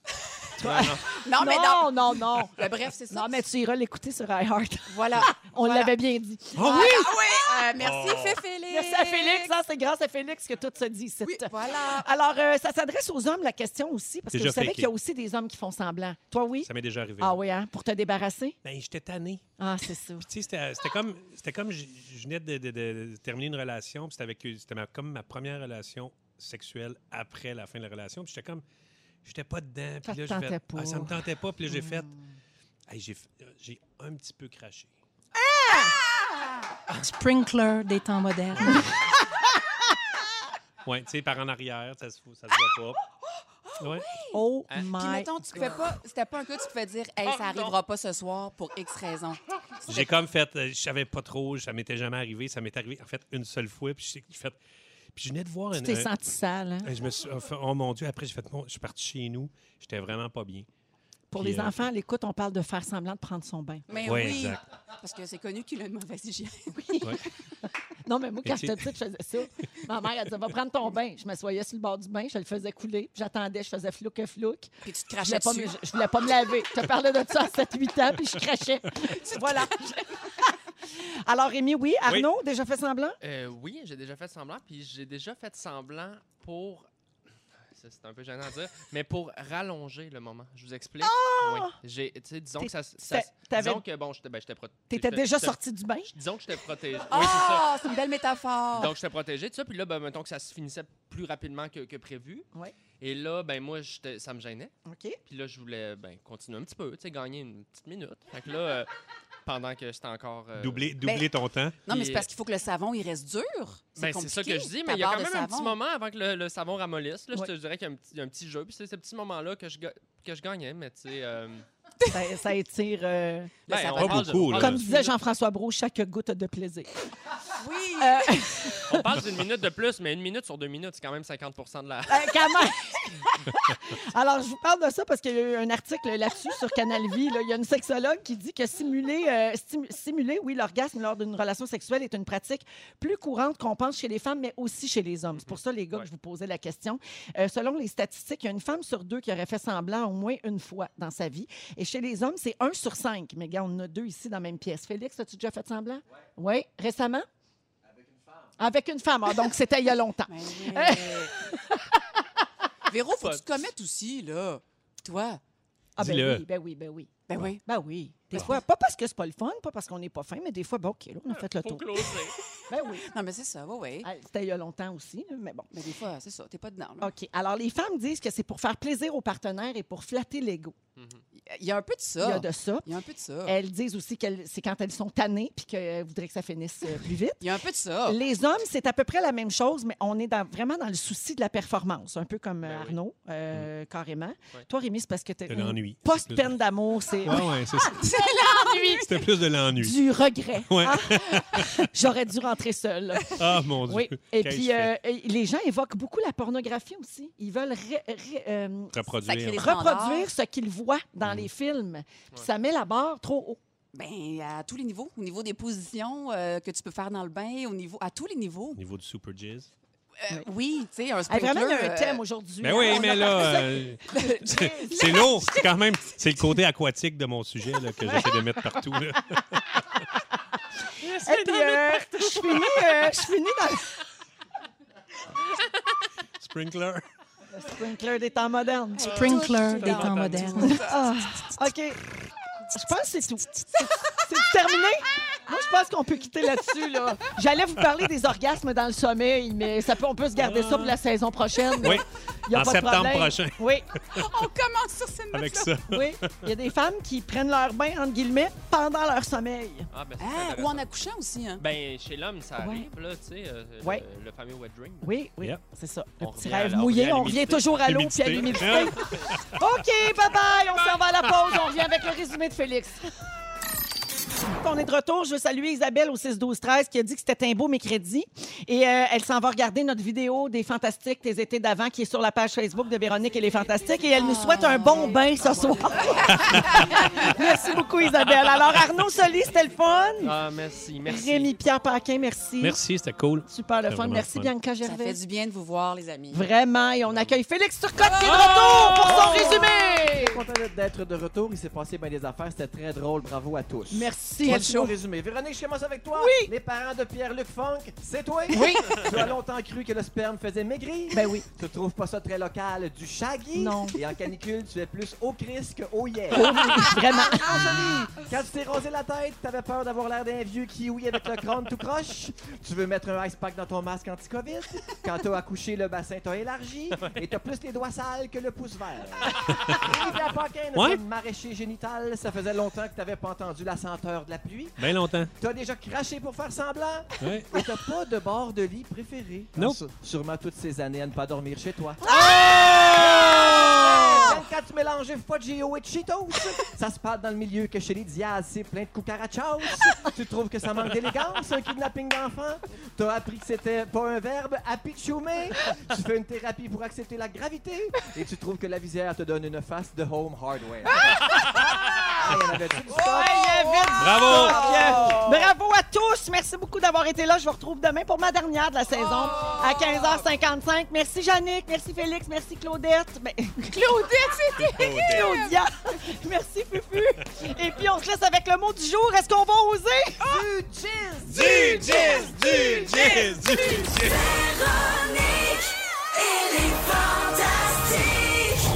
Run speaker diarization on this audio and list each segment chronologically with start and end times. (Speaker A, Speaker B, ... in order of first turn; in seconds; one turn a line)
Speaker A: 0.6-1.1
Speaker B: 0.6-2.6
Speaker C: 1.1-3.4
Speaker B: 3.1-7.6
Speaker C: 4.9-6.0
Speaker D: 6.6-7.1
Speaker C: 6.6-9.6
Speaker D: 7.8-8.4
Speaker B: 8.7-18.6
Speaker C: 11.2-12.1
Speaker D: 14.3-14.9
Speaker D: 16.6-17.4
Speaker D: 18.6-19.4
Speaker B: 19.6-20.3
Speaker D: 20.2-28.6
Speaker D: 29.2-32.1
Speaker B: 30.1-31.1
Speaker B: 31.7-32.2
Speaker D: 32.9-34.9
Speaker B: 35.4-36.0
Speaker E: 37.0-38.9
Speaker D: 38.5-38.9
Speaker B: 38.7-38.9
Speaker D: 40.9-43.0
Speaker C: 43.7-50.0
Speaker D: 43.8-44.0
Speaker B: 44.3-45.8
Speaker A: 47.3-47.8
Speaker D: 49.9-54.6
Speaker D: 55.1-56.1
Speaker B: 55.8-56.9
Speaker D: 56.8-60.7
Speaker B: 61.3-63.9
Speaker D: 61.4-61.9
Speaker C: 63.9-67.2
Speaker D: 64.0-64.6
Speaker B: 66.7-67.2
Speaker B: 68.0-74.7
Speaker D: 68.4-68.8
Speaker C: 74.8-75.7
Speaker B: 75.2-83.2
Speaker A: 83.2-86.9
Speaker A: 87.7-97.7
Speaker B: 91.0-91.7
Speaker B: 92.6-93.8
Speaker B: 94.9-96.1
Speaker C: 97.1-98.9
Speaker A: 98.8-102.5
Speaker A: 103.0-104.7
Speaker B: 104.9-105.2
Speaker A: 105.3-108.9
Speaker A: 109.5-110.9
Speaker D: 110.6-111.8
Speaker C: 111.9-115.8
Speaker A: 111.9-112.3
Speaker A: 114.0-121.7
Speaker B: 122.1-123.5
Speaker C: 123.7-124.3
Speaker A: 123.7-125.2
Speaker D: 123.9-124.8
Speaker B: 124.6-126.9
Speaker C: 127.6-128.5
Speaker B: 128.0-129.0
Speaker A: 128.9-132.7
Speaker B: 132.1-157.3
Speaker A: 145.3-146.1
Speaker B: 158.6-161.8
Speaker C: 160.3-161.3
Speaker C: 162.9-165.4
Speaker A: 163.2-163.4
Speaker B: 166.0-167.1
Speaker D: 166.0-166.4
Speaker C: 167.3-167.6
Speaker B: 167.7-172.2
Speaker C: 168.3-168.6
Speaker A: 171.3-172.4
Speaker B: 172.7-173.1
Speaker C: 173.0-174.1
Speaker B: 174.0-175.7
Speaker C: 175.7-177.1
Speaker B: 177.0-180.8
Speaker A: 181.0-181.2
Speaker C: 181.4-183.6
Speaker B: 182.2-182.9
Speaker B: 183.4-187.4
Speaker C: 187.4-188.2
Speaker B: 188.1-199.1
Speaker A: 192.6-193.0
Speaker D: 195.5-196.6
Speaker D: 197.2-198.0
Speaker C: 197.9-199.1
Speaker D: 198.9-200.0
Speaker B: 199.7-209.0
Speaker D: 200.6-201.9
Speaker D: 203.4-204.9
Speaker D: 208.9-209.8
Speaker C: 209.3-210.3
Speaker B: 209.5-213.6
Speaker D: 211.2-211.5
Speaker C: 213.9-218.8
Speaker D: 218.8-219.7
Speaker C: 220.2-226.1
Speaker B: 221.3-225.3
Speaker D: 222.6-229.8
Speaker B: 228.0-228.8
Speaker B: 231.1-233.9
Speaker D: 236.4-237.1
Speaker B: 237.5-242.0
Speaker C: 239.0-241.0
Speaker A: 239.0-241.0
Speaker E: 239.1-240.8
Speaker B: 242.7-253.9
Speaker D: 250.4-251.0
Speaker D: 251.8-254.3
Speaker C: 254.1-255.7
Speaker D: 255.3-256.6
Speaker B: 255.9-259.9
Speaker A: 259.9-260.9
Speaker C: 260.2-261.6
Speaker A: 261.6-265.1
Speaker B: 262.6-262.9
Speaker B: 265.0-273.2
Speaker A: 266.2-267.8
Speaker D: 267.8-269.8
Speaker A: 268.7-269.1
Speaker D: 271.3-271.6
Speaker B: 274.5-290.4
Speaker C: 284.2-285.2
Speaker C: 286.0-287.4
Speaker D: 286.3-286.7
Speaker A: 290.2-291.6
Speaker B: 291.1-292.8
Speaker D: 292.6-294.5
Speaker B: 293.5-295.2
Speaker C: 294.8-296.5
Speaker B: 296.3-300.4
Speaker C: 298.0-299.7
Speaker A: 298.3-299.4
Speaker F: 298.3-342.0
Speaker B: 303.9-304.9
Speaker C: 304.4-304.9
Speaker B: 306.1-306.5
Speaker B: 308.5-309.3
Speaker C: 308.5-308.8
Speaker B: 311.1-311.4
Speaker B: 313.5-314.0
Speaker B: 316.3-318.2
Speaker A: 326.9-327.3
Speaker D: 334.8-335.3
Speaker D: 337.2-337.6
Speaker D: 339.6-339.8
Speaker B: 342.0-344.4
Speaker D: 342.1-343.9
Speaker F: 342.9-361.3
Speaker B: 361.8-362.1
Speaker F: 362.2-363.4
Speaker B: 362.9-373.8
Speaker C: 362.9-365.5
Speaker D: 364.0-364.7
Speaker F: 364.3-365.2
Speaker C: 369.2-370.1
Speaker C: 373.7-375.5
Speaker D: 374.6-375.4
Speaker B: 374.9-380.4
Speaker C: 380.2-381.9
Speaker F: 380.3-381.3
Speaker D: 381.3-384.3
Speaker B: 381.4-383.8
Speaker C: 384.2-388.4